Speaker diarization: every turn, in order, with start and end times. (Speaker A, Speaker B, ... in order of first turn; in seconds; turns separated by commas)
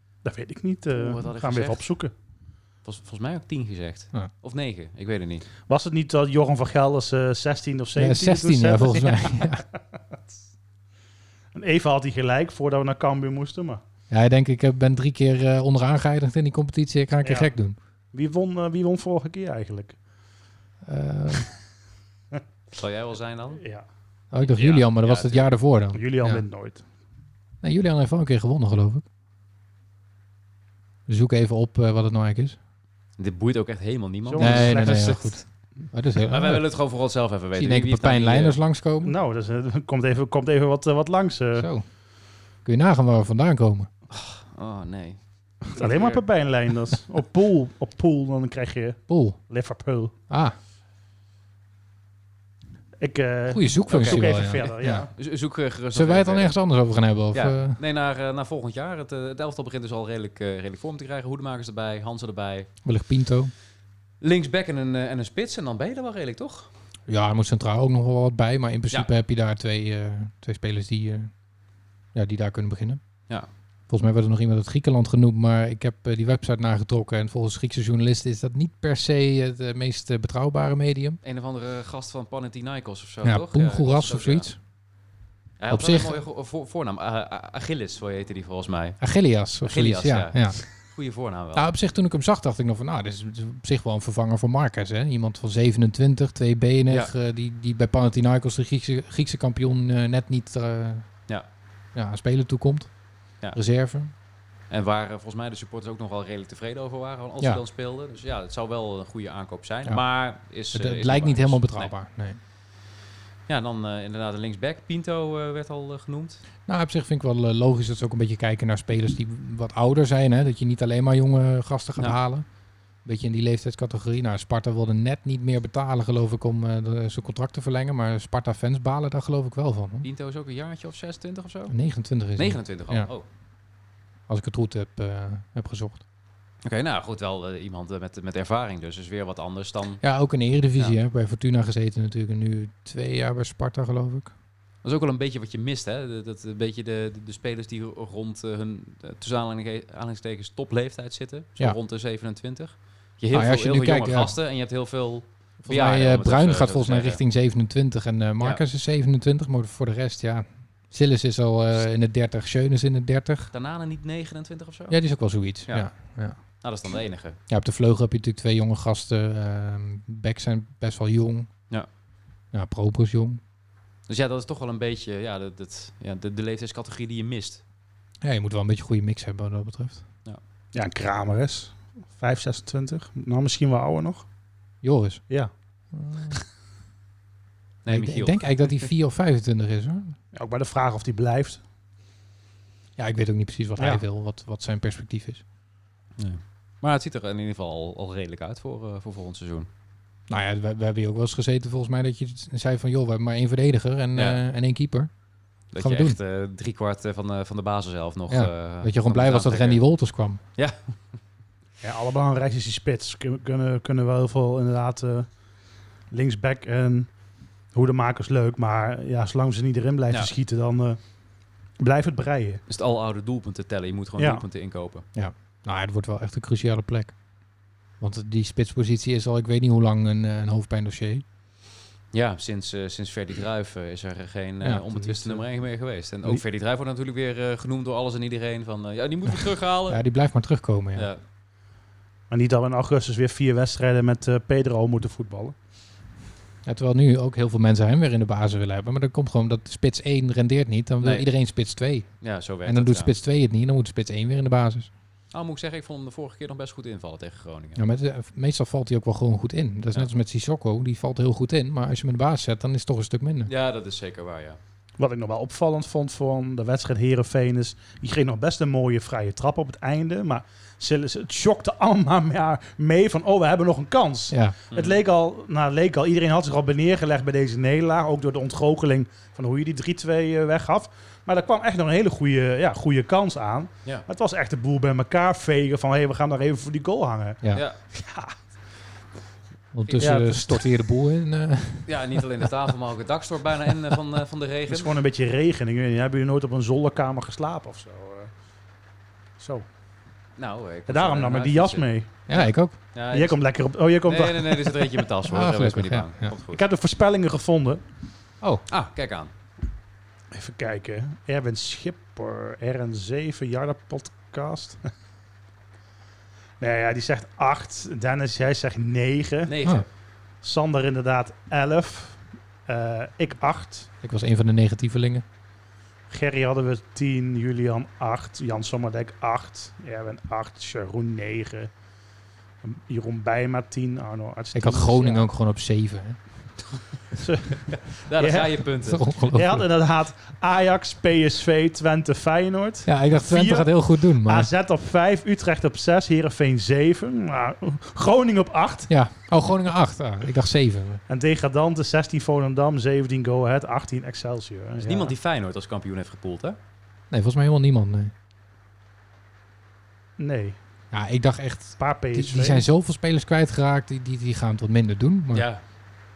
Speaker A: 0.2-2.1, Speaker B: 0.9-1.9, Speaker B: 2.8-5.4, Speaker A: 5.7-9.5, Speaker C: 8.0-9.6, Speaker A: 11.5-13.8, Speaker C: 14.1-17.8, Speaker A: 17.2-17.5, Speaker A: 18.1-20.0, Speaker C: 20.8-21.5, Speaker B: 22.7-23.6, Speaker A: 23.6-23.8, Speaker C: 24.3-26.4, Speaker B: 24.4-25.5, Speaker A: 25.9-26.8, Speaker C: 27.6-29.0, Speaker C: 31.1-32.6, Speaker B: 33.2-35.4, Speaker A: 34.2-35.3, Speaker C: 34.4-35.4, Speaker C: 35.9-36.6, Speaker B: 36.3-38.6, Speaker C: 37.5-39.1, Speaker A: 39.0-41.7, Speaker C: 41.5-41.9, Speaker C: 42.6-43.9, Speaker B: 44.1-45.2, Speaker A: 45.7-50.1, Speaker B: 45.7-46.2, Speaker C: 49.1-49.4, Speaker C: 50.3-50.5, Speaker A: 53.0-55.1, Speaker C: 53.5-55.1, Speaker B: 54.0-56.5, Speaker C: 55.9-57.8, Speaker B: 57.3-62.7, Speaker C: 62.8-63.5, Speaker B: 64.2-66.7, Speaker C: 67.1-71.3, Speaker C: 72.1-73.0, Speaker C: 73.9-81.2, Speaker B: 81.2-84.5, Speaker C: 83.2-84.6, Speaker B: 85.6-89.0, Speaker C: 85.7-86.2, Speaker C: 89.0-90.6, Speaker B: 89.6-91.6, Speaker C: 91.5-101.1, Speaker C: 101.9-102.9, Speaker C: 103.5-104.1, Speaker B: 104.7-111.9, Speaker C: 110.7-112.4, Speaker B: 113.5-116.4, Speaker C: 116.7-122.5, Speaker C: 123.0-130.1, Speaker B: 130.0-131.7, Speaker C: 131.7-133.1, Speaker B: 132.3-133.2, Speaker C: 134.3-136.0, Speaker B: 136.6-140.0, Speaker C: 140.0-144.3, Speaker B: 144.8-157.2, Speaker C: 153.3-154.3, Speaker C: 155.6-163.5, Speaker B: 163.5-165.0, Speaker C: 164.9-166.4, Speaker B: 166.6-167.4, Speaker C: 167.5-171.5, Speaker C: 172.5-173.4, Speaker B: 174.1-177.6, Speaker C: 178.2-180.0, Speaker A: 180.7-184.2, Speaker C: 184.8-185.2, Speaker C: 185.9-186.4, Speaker B: 187.8-188.9, Speaker C: 187.9-190.2, Speaker A: 190.3-191.6, Speaker C: 193.0-195.4, Speaker A: 193.8-194.0, Speaker B: 196.2-199.7, Speaker C: 200.3-205.1, Speaker B: 204.1-204.4, Speaker B: 205.7-209.8, Speaker C: 205.8-206.2, Speaker C: 208.3-210.4, Speaker B: 210.6-210.9, Speaker A: 211.8-215.3, Speaker A: 216.1-217.1, Speaker A: 217.7-221.0, Speaker A: 221.8-222.6, Speaker B: 222.7-225.1, Speaker A: 224.2-224.4, Speaker C: 225.1-227.1, Speaker C: 228.0-231.2, Speaker B: 232.1-240.0, Speaker C: 234.6-235.4, Speaker C: 239.9-241.1, Speaker B: 240.9-241.2, Speaker A: 242.3-245.5, Speaker C: 246.6-252.1, Speaker B: 251.0-251.3, Speaker B: 252.2-253.1, Speaker C: 252.6-254.9, Speaker B: 255.3-257.8, Speaker C: 257.8-263.5, Speaker B: 263.4-264.6, Speaker A: 265.0-288.3, Speaker C: 274.3-274.6, Speaker B: 274.7-275.0, Speaker B: 287.5-287.8, Speaker C: 289.7-292.4, Speaker B: 289.8-290.2, Speaker A: 290.0-290.6, Speaker B: 291.9-294.9, Speaker A: 294.7-298.3, Speaker A: 299.4-299.6, Speaker B: 300.4-303.4, Speaker A: 300.9-302.1, Speaker C: 302.3-302.7, Speaker A: 303.1-305.0, Speaker B: 304.0-306.6, Speaker C: 305.3-306.3, Speaker A: 306.5-307.8, Speaker B: 308.7-309.3, Speaker A: 310.3-314.8, Speaker A: 316.6-319.5, Speaker B: 319.4-319.9, Speaker A: 320.4-323.9, Speaker C: 324.0-325.2, Speaker A: 326.1-331.7, Speaker A: 332.6-335.3, Speaker C: 334.5-336.2, Speaker A: 337.2-338.6, Speaker B: 337.7-339.0, Speaker C: 338.8-339.6, Speaker A: 339.3-348.9, Speaker C: 342.9-344.5, Speaker C: 348.9-351.0, Speaker A: 351.1-355.1, Speaker B: 354.8-356.6, Speaker C: 357.1-358.1, Speaker A: 360.2-360.6, Speaker C: 360.9-365.5, Speaker A: 361.8-362.6, Speaker B: 365.3-365.6